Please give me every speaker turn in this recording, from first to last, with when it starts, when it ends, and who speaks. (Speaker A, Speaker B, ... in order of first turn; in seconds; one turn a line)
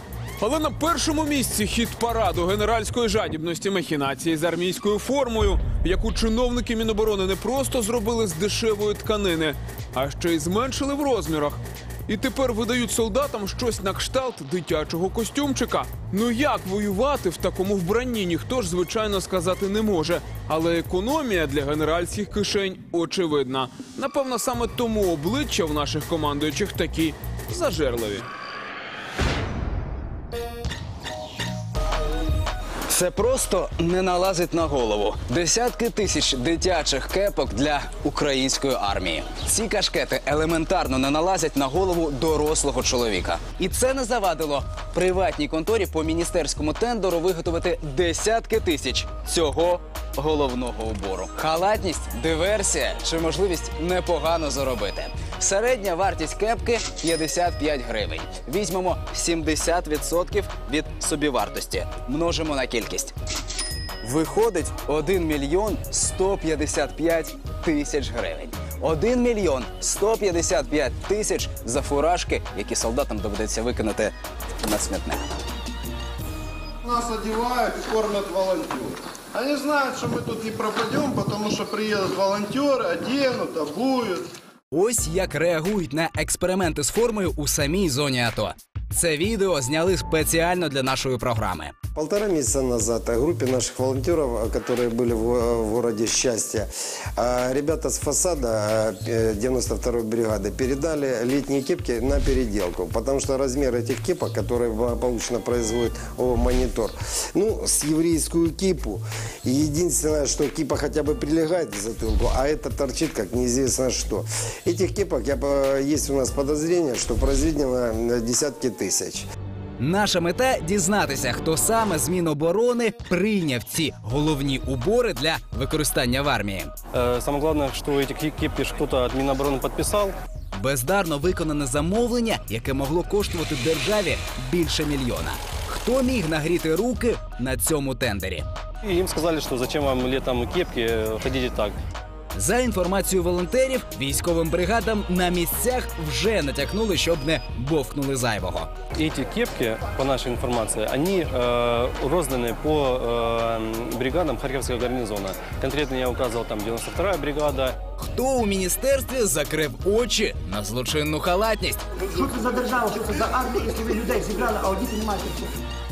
Speaker A: 0.4-28.2
Speaker B: 32.9-63.1
Speaker B: 64.0-75.2
Speaker C: 76.8-84.3
Speaker B: 84.7-91.7
Speaker D: 91.9-119.2
Speaker B: 119.8-126.7
Speaker E: 126.9-130.2
Speaker B: 130.5-138.4
Speaker E: 138.8-141.8
Speaker B: 142.3-148.7
Speaker E: 149.0-157.7
Speaker B: 158.0-161.8
Speaker F: 162.1-165.5